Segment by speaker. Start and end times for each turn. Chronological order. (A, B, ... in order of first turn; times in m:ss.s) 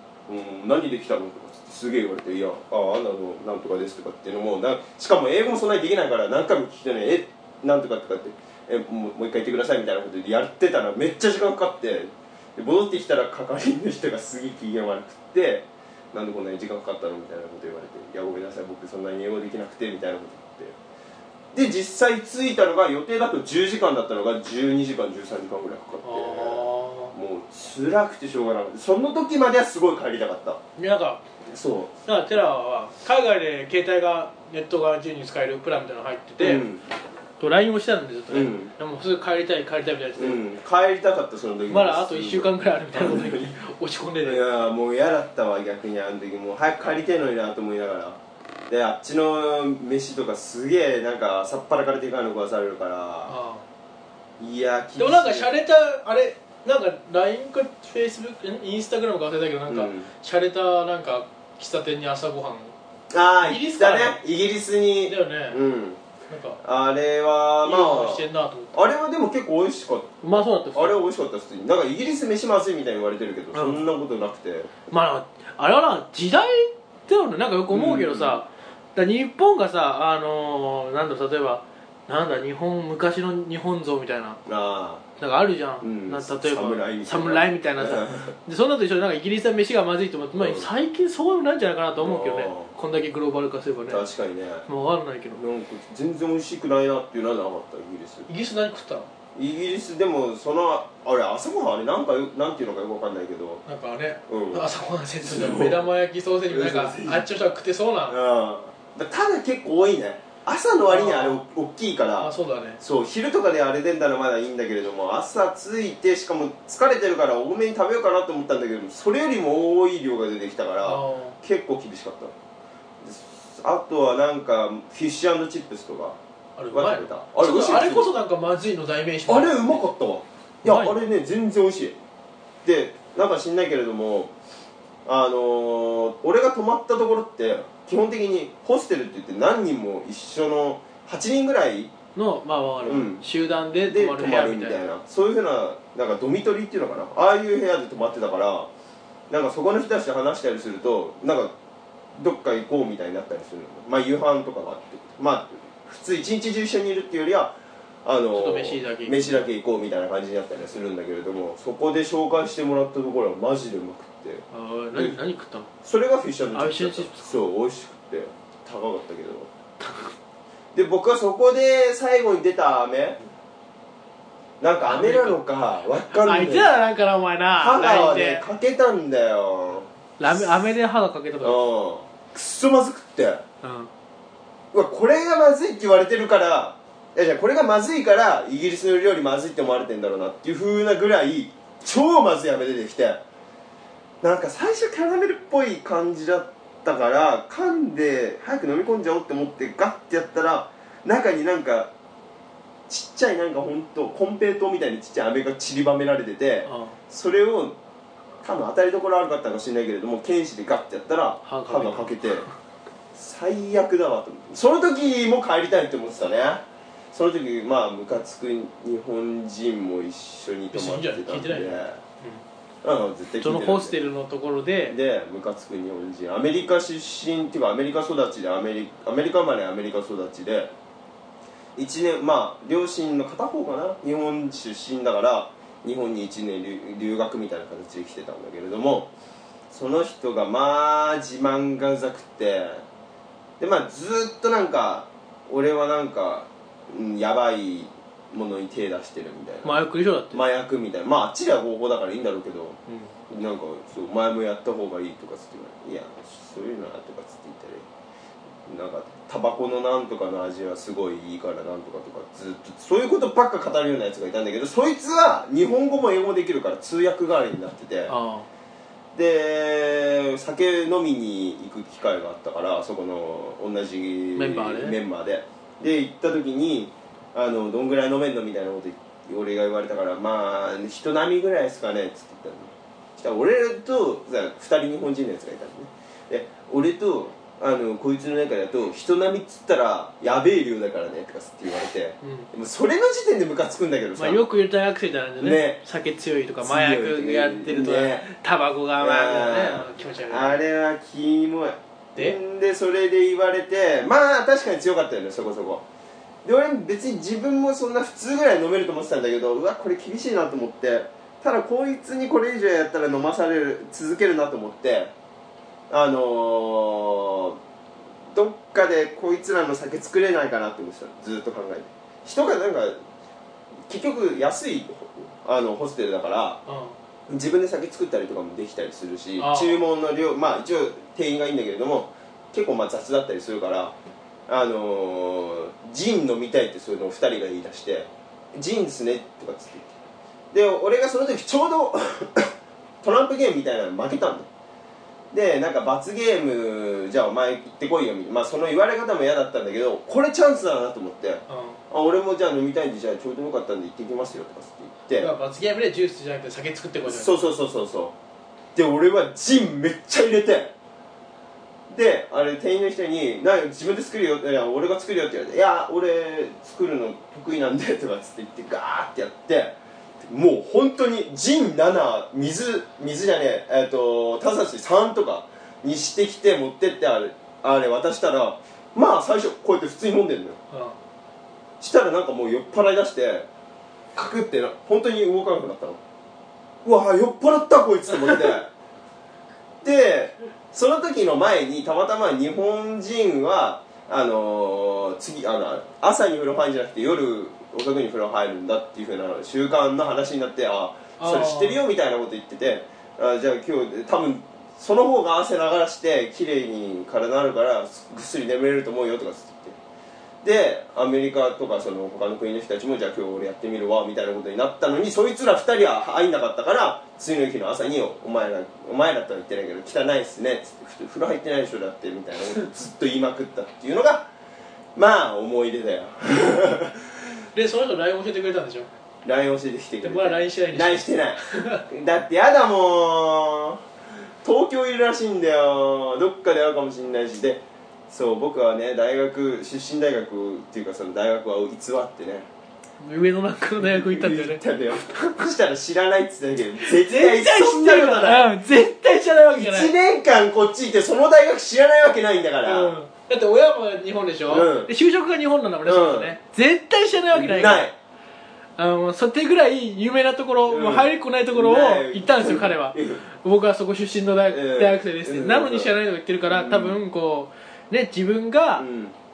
0:00.3-0:20.8 A
0:21.5-0:30.6 A
0:26.0-0:27.1 B
0:30.8-0:31.2 B
0:31.5-0:31.9 A
0:32.1-0:36.7 B
0:36.4-0:36.8 A
0:37.4-0:40.4 B
0:38.3-0:38.7 A
0:40.2-0:43.6 A
0:41.7-0:44.6 B
0:44.2-0:53.4 A
0:53.3-0:53.6 B
0:54.4-0:55.5 A
0:55.0-1:02.7 B
0:59.7-1:00.1 A
1:03.1-1:06.0 A
1:03.4-1:04.2 B
1:05.1-1:05.6 B
1:06.3-1:06.6 B
1:06.6-1:14.7 A
1:07.6-1:08.7 B
1:10.2-1:11.0 B
1:13.5-1:13.8 B
1:14.9-1:24.4 B
1:17.7-1:18.4 A
1:24.5-1:25.0 A
1:25.2-1:34.0 B
1:25.8-1:28.4 A
1:30.4-1:30.7 A
1:32.0-1:32.7 A
1:33.9-1:34.7 A
1:34.7-1:35.4 B
1:35.4-1:38.3 A
1:38.3-1:39.1 B
1:39.4-1:43.6 A
1:43.7-1:48.2 B
1:44.3-1:44.7 A
1:45.2-1:45.8 A
1:46.5-1:47.3 A
1:48.1-2:02.3 A
1:50.9-1:51.4 B
1:52.2-1:52.8 B
2:00.8-2:01.4 B
2:03.0-2:06.2 A
2:06.6-2:09.9 B
2:06.7-2:08.1 A
2:09.3-2:12.0 A
2:10.6-2:11.0 B
2:12.6-2:14.3 A
2:15.1-2:21.9 A
2:22.2-2:24.8 B
2:22.8-2:23.2 A
2:23.9-2:28.7 A
2:29.3-2:31.5 A
2:32.2-2:45.2 A
2:38.3-2:39.5 B
2:44.5-2:45.7 B
2:45.8-2:49.5 A
2:46.5-2:47.3 B
2:49.8-2:50.1 B
2:50.7-2:53.2 A
2:54.6-2:56.7 A
2:54.8-2:55.4 B
2:56.1-2:58.4 B
2:57.6-3:00.5 A
3:00.2-3:01.6 B
3:01.4-3:03.4 A
3:03.6-3:03.9 B
3:04.7-3:13.2 A
3:14.2-3:21.9 A
3:22.9-3:27.8 A
3:26.7-3:27.0 B
3:28.4-3:32.5 A
3:31.4-3:32.5 B
3:33.2-3:42.0 A
3:40.7-3:42.4 B
3:42.8-3:44.0 A
3:43.4-3:45.0 B
3:44.9-3:50.7 A
3:51.8-3:59.1 A
3:59.7-4:02.8 A
4:03.6-4:09.8 A
4:09.6-4:10.4 B
4:10.3-4:17.9 A
4:12.9-4:13.1 B
4:18.7-4:28.2 A
4:28.1-4:28.5 B
4:29.1-4:54.4 A
4:34.4-4:35.0 B
4:52.2-4:52.5 B
4:54.2-5:00.6 B
4:55.4-4:55.8 A
4:56.6-4:58.3 A
4:59.0-5:05.8 A
5:06.4-5:15.1 A
5:15.9-5:17.6 A
5:18.3-5:23.0 A
5:23.9-5:26.6 A
5:26.7-5:27.0 B
5:27.3-5:34.0 A
5:29.4-5:29.8 B
5:34.5-5:40.0 A
5:40.5-5:44.5 A
5:45.3-5:55.3 A
5:51.5-5:51.8 B
5:55.2-5:57.5 B
5:57.0-5:58.2 A
5:58.8-6:00.7 A
6:01.9-6:20.6 A
6:20.7-6:21.0 B
6:21.8-6:23.5 A
6:24.2-6:26.0 A
6:26.8-6:28.7 A
6:29.8-6:49.8 A
6:41.2-6:41.8 B
6:50.4-7:04.3 A
7:05.0-7:07.2 A
7:07.5-7:08.9 B
7:09.2-7:13.8 A
7:10.0-7:11.8 B
7:14.4-7:22.5 A
7:23.0-7:25.5 B
7:23.8-7:28.5 A
7:26.8-7:29.9 B
7:29.6-7:33.0 A
7:32.6-7:37.9 B
7:34.5-7:34.9 A
7:35.9-7:36.4 A
7:37.3-7:38.0 A
7:38.8-7:48.9 B
7:40.7-7:43.2 A
7:44.5-7:45.9 A
7:46.5-7:47.0 A
7:48.8-7:49.2 A